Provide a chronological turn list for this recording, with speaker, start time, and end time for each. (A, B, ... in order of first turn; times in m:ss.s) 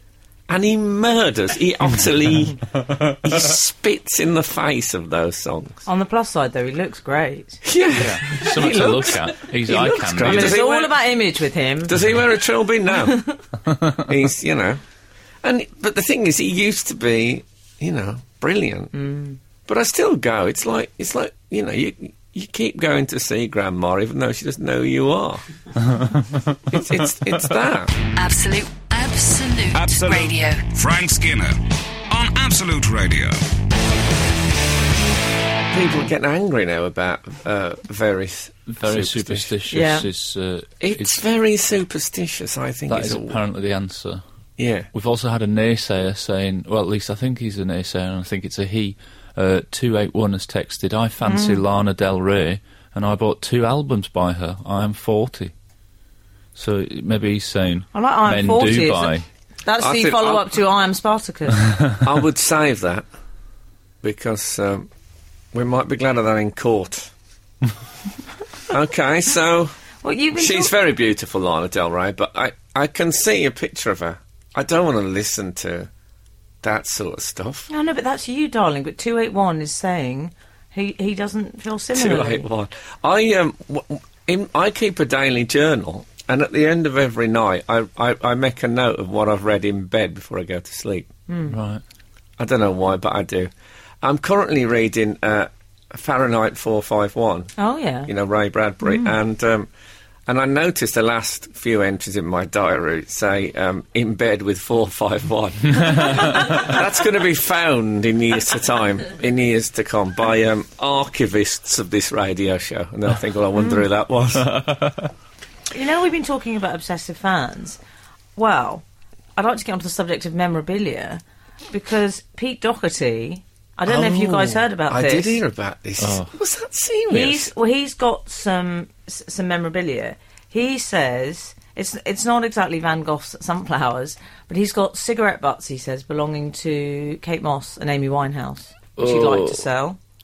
0:00.5-0:05.8 A
0:05.8-0:07.6 B
0:07.6-0:10.9 A
0:07.9-0:10.6 C
0:10.2-0:12.0 B
0:11.8-0:13.2 A
0:13.1-0:13.4 B
0:14.0-0:14.8 A
0:15.4-0:18.9 A
0:18.9-0:19.4 B
0:19.6-0:25.4 A
0:25.8-0:26.8 C
0:26.7-0:27.9 A
0:28.1-0:31.1 D
0:29.7-0:31.5 E
0:32.1-0:33.3 E
0:35.7-0:39.5 A
0:38.7-0:41.2 C
0:39.7-0:40.1 B
0:40.8-0:43.4 A
0:42.9-0:44.2 C
0:44.6-0:44.9 A
0:44.9-0:55.5 C
0:51.2-0:51.6 B
0:56.5-0:59.2 C
0:57.9-1:01.6 B
0:59.8-1:00.4 A
1:02.0-1:03.0 A
1:04.0-1:04.9 A
1:05.5-1:07.1 A
1:08.7-1:09.7 A
1:10.0-1:10.7 B
1:10.3-1:15.9 A
1:16.6-1:17.7 A
1:17.7-1:22.4 B
1:21.9-1:31.1 A
1:31.3-1:31.6 B
1:31.5-1:31.8 C
1:32.4-1:33.5 A
1:34.0-1:37.5 A
1:37.6-1:38.1 B
1:38.0-1:39.7 A
1:38.8-1:39.1 B
1:40.3-1:54.5 A
1:53.6-1:53.8 B
1:54.4-1:55.1 C
1:55.7-1:57.8 B
1:58.4-1:58.8 B
1:59.4-2:05.4 B
2:03.8-2:07.5 A
2:06.0-2:06.3 C
2:07.1-2:20.0 B
2:19.0-2:19.6 C